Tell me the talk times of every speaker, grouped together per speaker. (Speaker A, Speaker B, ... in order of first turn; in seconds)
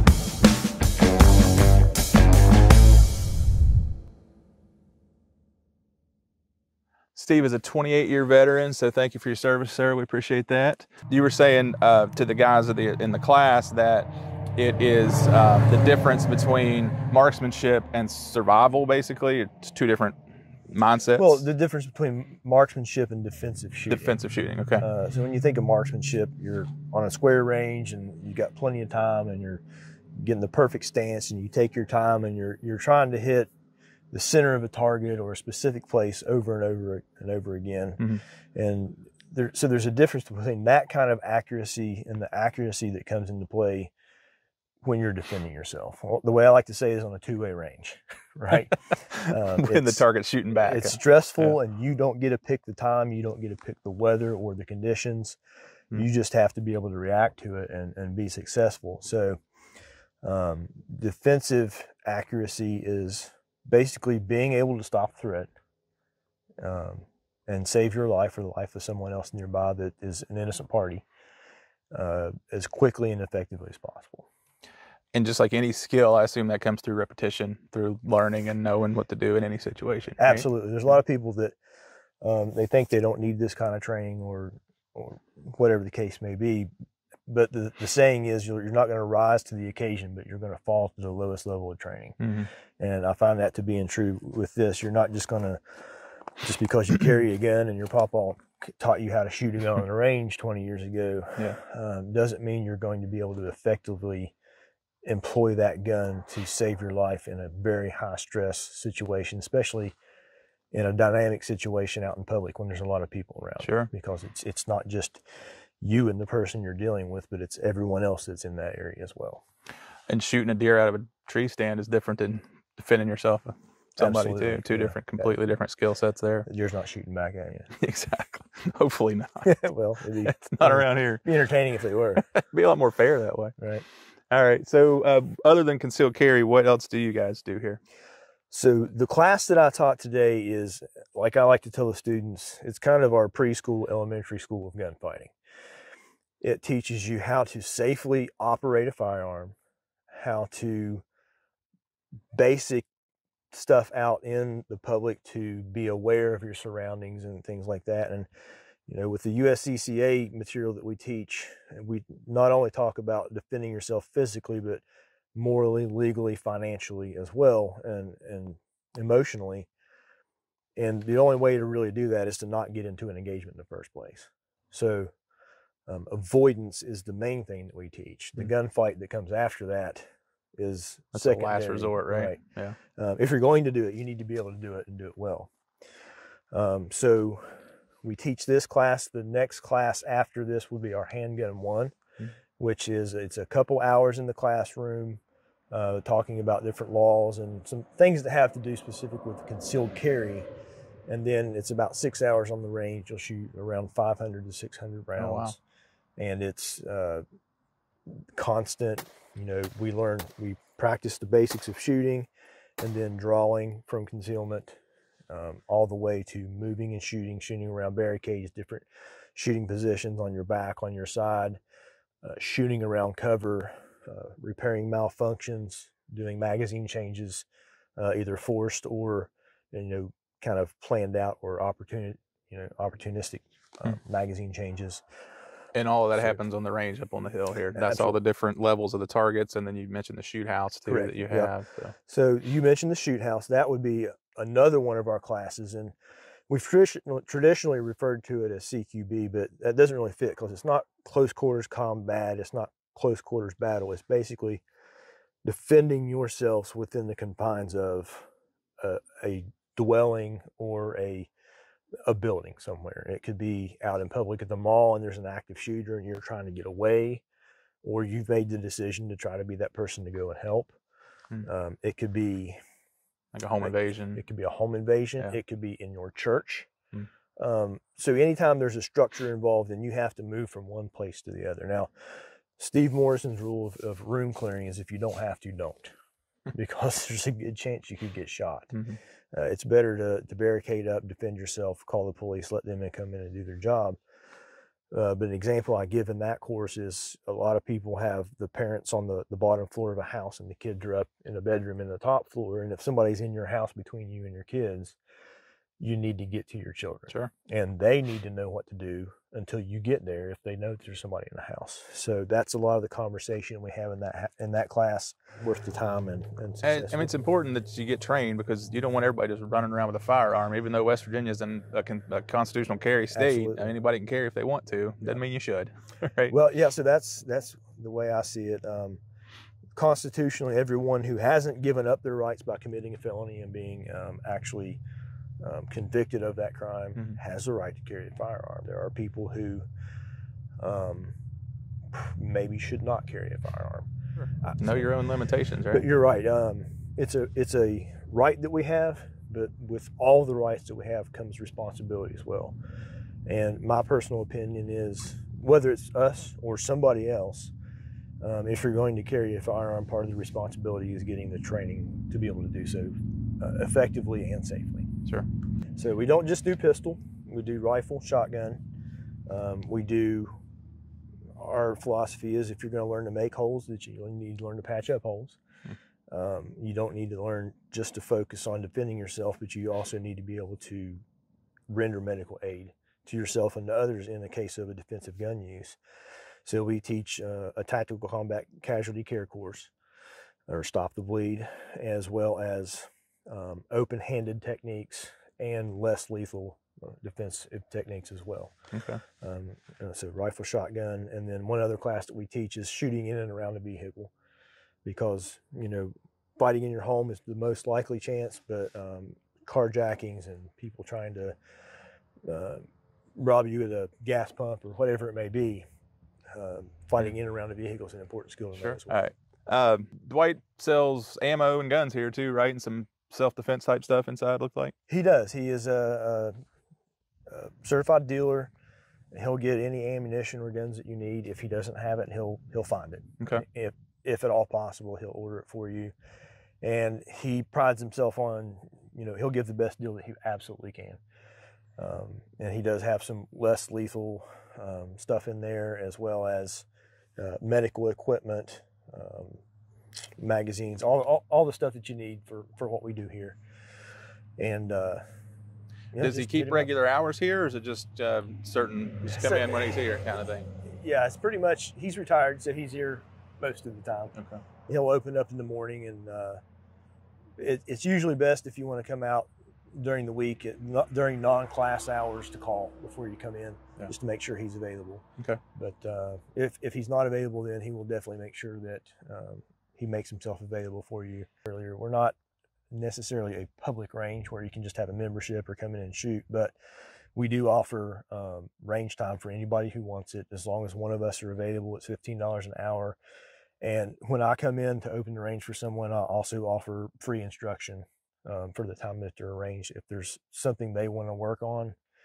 Speaker A: 7.1-20.1, 20.7-21.4, 23.9-24.9, 48.9-51.6, 75.1-80.5, 92.2-92.5, 113.6-113.9, 120.1-126.5, 127.8-129.6, 130.2-131.2, 132.2-133.6, 134.3-137.8, 181.1-182.8, 205.2-205.6, 235.7-241.9, 273.3-274.2, 288.7-289.0, 316.6-326.4, 344.6-345.9, 398.7-399.0, 418.6-424.7, 456.0-460.5, 464.1-464.4
Speaker B: 21.1-24.2, 24.8-29.6, 30.2-33.5, 34.1-38.0, 38.5-43.9, 44.8-55.4, 55.9-59.4, 60.2-65.5, 66.6-71.0, 71.9-74.3, 80.2-81.5, 82.2-86.7, 87.3-92.2, 92.8-95.8, 96.4-104.3, 105.0-110.0, 110.7-115.2, 115.8-119.4, 124.0-125.4, 126.5-127.7, 129.4-132.2, 133.6-133.8, 138.5-145.3, 146.4-149.6, 150.1-151.0, 152.3-152.9, 153.5-158.3, 158.9-169.7, 170.8-175.1, 175.9-180.0, 180.6-182.4, 182.9-185.5, 186.5-191.9, 192.6-200.5, 201.1-205.6, 206.2-207.2, 208.3-212.3, 212.8-214.8, 215.3-221.6, 222.2-227.4, 228.0-235.0, 236.2-236.4, 237.7-238.2, 240.9-241.5, 242.1-245.9, 246.5-254.6, 255.4-258.3, 258.8-261.3, 262.1-267.2, 267.8-270.7, 271.4-272.6, 273.6-276.7, 277.4-281.9, 282.6-285.9, 286.5-288.8, 289.3-294.0, 294.9-305.0, 305.8-317.1, 323.1-323.7, 326.3-329.0, 329.8-334.8, 335.4-339.6, 340.6-341.1, 341.9-343.9, 344.4-344.9, 345.7-352.6, 353.2-357.5, 358.2-364.9, 365.8-368.6, 369.3-370.3, 371.4-375.4, 376.1-381.0, 381.7-385.8, 386.4-389.7, 390.5-398.5, 399.2-404.1, 404.8-411.4, 412.3-412.6, 413.1-415.6, 416.3-419.0, 424.9-426.3, 427.3-428.5, 429.1-435.9, 436.6-441.0, 441.8-446.7, 447.2-449.4, 450.2-453.4, 454.4-455.0, 455.9-456.7, 459.1-459.6, 460.6-464.1, 464.7-466.4, 467.4-482.1, 482.7-486.5, 487.1-493.0, 493.6-501.8